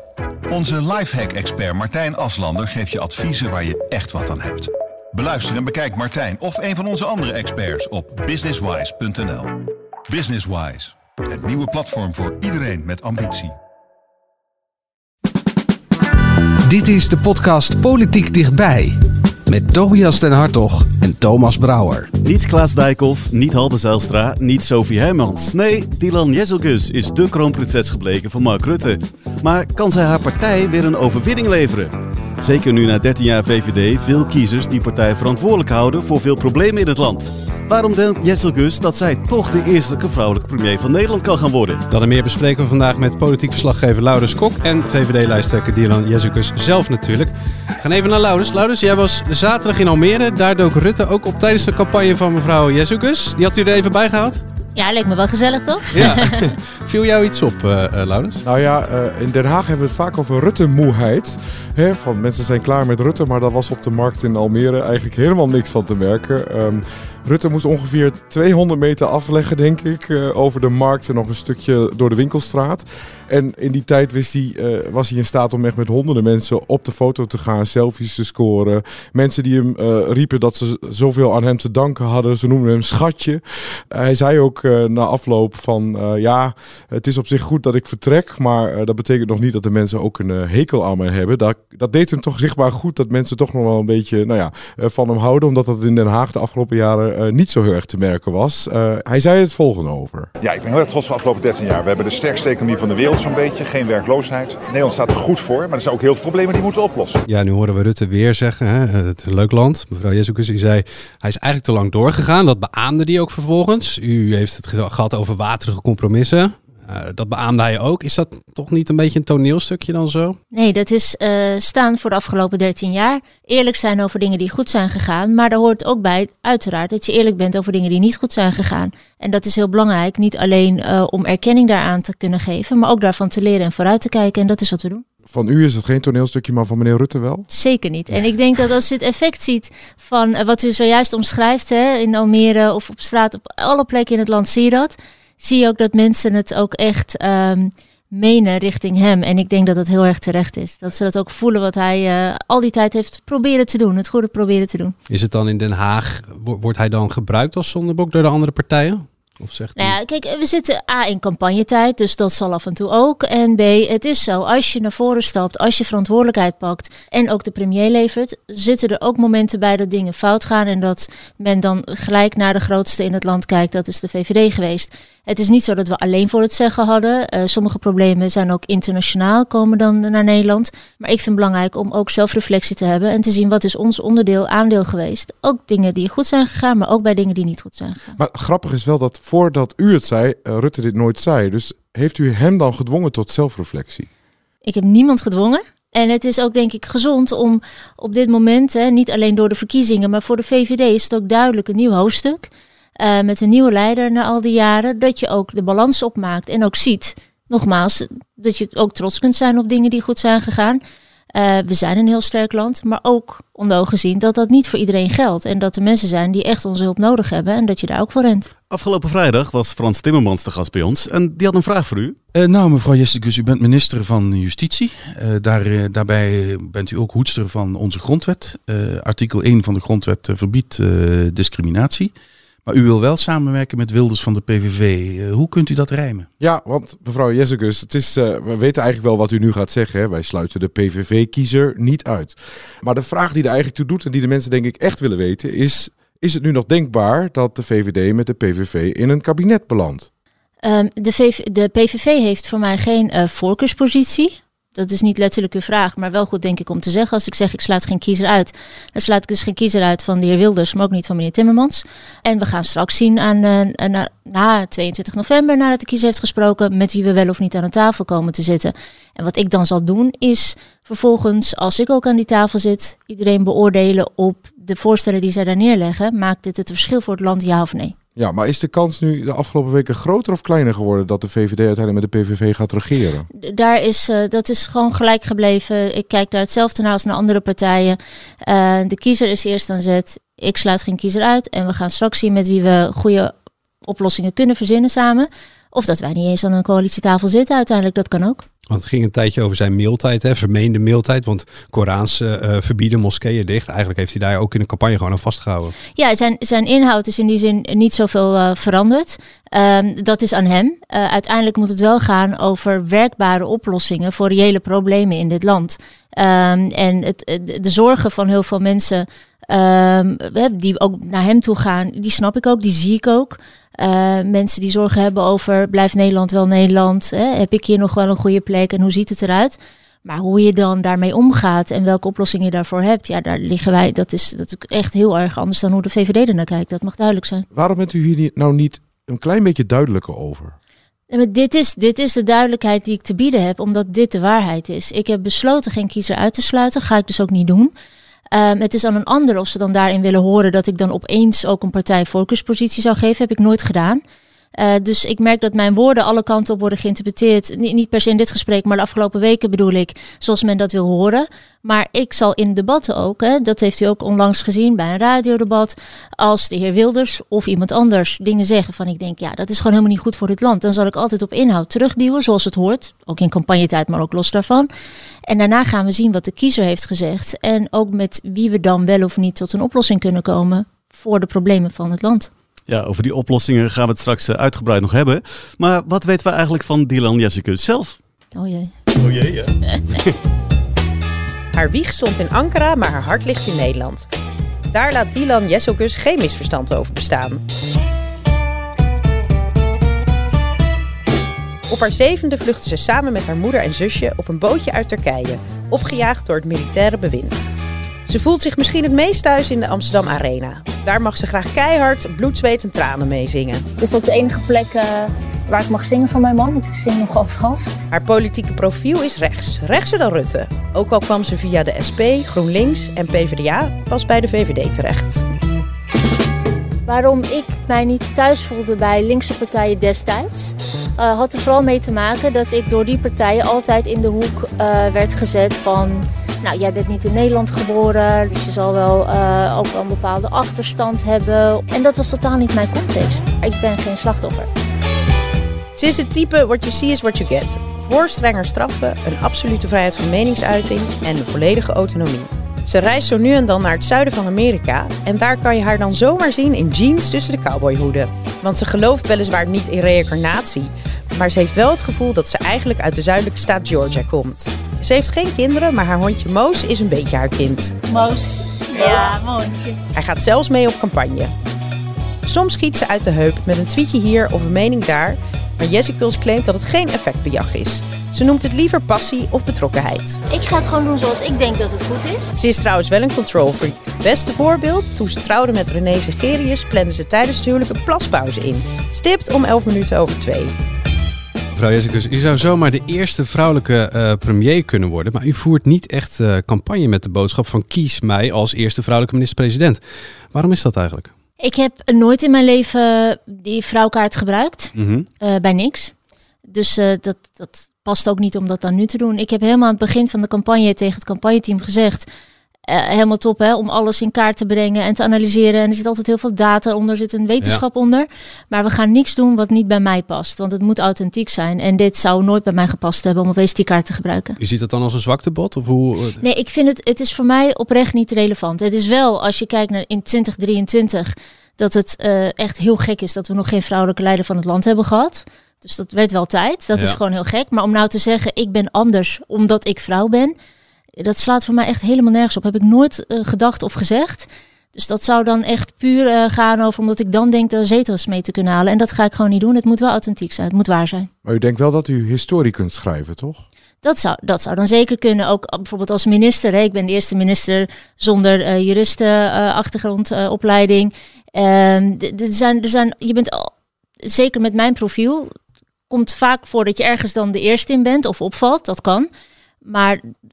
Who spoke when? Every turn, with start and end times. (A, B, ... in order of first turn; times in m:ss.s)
0:00.5-0:13.5 A
0:16.6-0:22.1 B
0:22.2-0:41.8 C
0:41.9-0:54.4 D
0:54.8-0:56.5 E
0:55.9-0:58.4 D
0:58.4-1:40.3 F
1:40.4-1:47.2 G
1:47.3-2:00.4 D
2:00.5-2:15.0 E
2:15.2-2:17.4 F
2:17.5-2:34.9 E
2:35.1-2:40.0 D
2:39.8-3:08.2 E
3:08.2-3:14.1 F
3:14.6-3:30.8 E
3:31.3-3:38.5 E
3:38.7-3:42.2 C
3:42.3-3:52.1 H
3:52.6-3:56.3 H
3:56.4-4:10.1 F
4:10.6-4:37.9 E
4:38.2-4:43.3 F
4:43.3-4:53.3 E
4:53.8-4:58.4 E
4:58.7-5:05.7 D
5:06.0-5:37.4 E
5:37.5-5:40.6 F
5:41.1-5:47.7 E
5:48.3-5:54.0 E
5:54.6-6:14.7 E
6:15.3-6:22.3 E
6:22.7-6:28.0 C
6:28.3-6:28.7 E
6:29.0-6:29.6 C
6:31.5-6:34.1 I
6:34.7-6:37.4 I
6:41.7-6:47.5 I
6:48.1-6:53.6 I
6:53.8-6:57.7 E
6:57.9-7:05.2 I
7:06.8-7:24.5 E
7:25.8-7:47.7 I
7:47.9-7:49.8 E
7:49.9-7:51.3 I
7:52.2-8:00.2 I
8:00.3-8:02.3 E
8:02.4-8:10.5 I
8:11.5-8:19.8 D
8:20.3-8:21.1 D
8:21.4-8:25.9 E
8:24.7-8:25.0 D
8:26.5-8:32.1 E
8:32.7-8:44.4 E
8:44.4-8:46.2 D
8:46.2-9:00.3 E
8:56.7-8:57.0 D
9:01.0-9:11.1 E
9:11.2-9:13.4 F
9:13.8-9:23.5 E
9:24.0-9:25.3 E
9:25.9-9:29.1 E
9:29.6-9:30.0 E